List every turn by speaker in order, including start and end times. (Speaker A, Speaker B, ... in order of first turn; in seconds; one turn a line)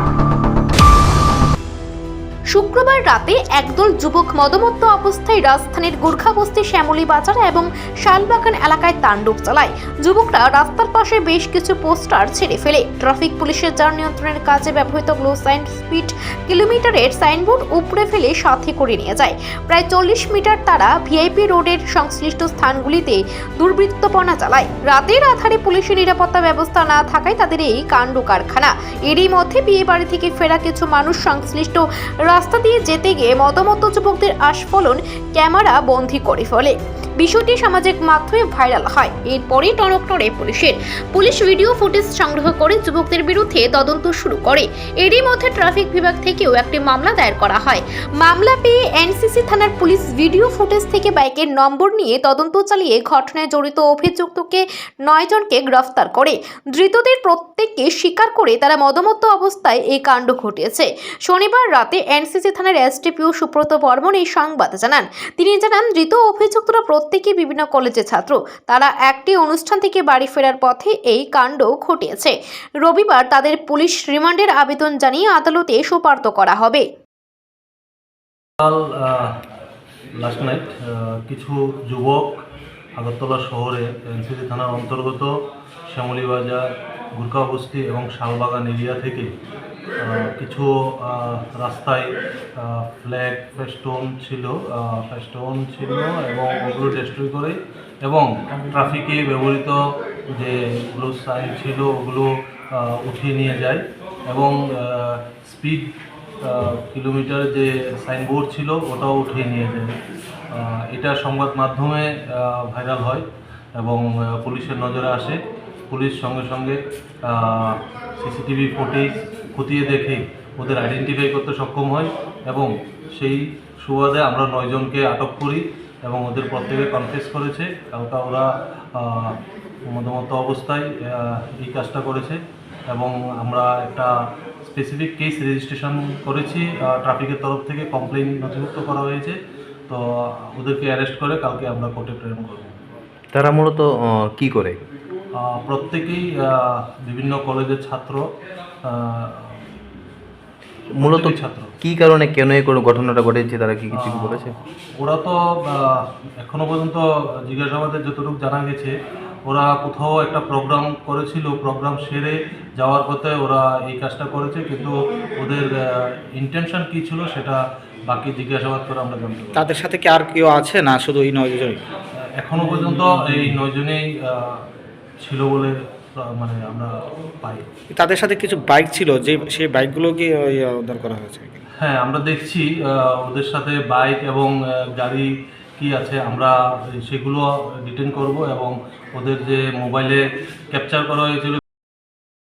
Speaker A: 2.5-76.9
Speaker B: 78.6-79.3
Speaker B: 80.2-82.4
Speaker B: 83.0-85.3
Speaker B: 85.9-86.6
Speaker B: 87.2-89.3
Speaker B: 90.0-99.8
Speaker B: 100.3-105.9
Speaker B: 106.4-109.9
Speaker B: 110.5-113.2
Speaker B: 113.8-129.4
Speaker B: 129.9-132.4
Speaker B: 132.9-134.1
Speaker B: 134.6-142.8
Speaker C: 143.3-144.8
Speaker B: 145.4-148.2
Speaker B: 148.8-149.8
Speaker B: 151.0-151.7
Speaker C: 151.0-154.5
Speaker B: 153.9-158.9
Speaker B: 159.5-169.7
Speaker D: 169.6-171.8
Speaker B: 172.4-174.6
Speaker D: 172.6-173.6
Speaker B: 175.2-177.7
Speaker D: 177.9-181.6
Speaker B: 181.8-191.6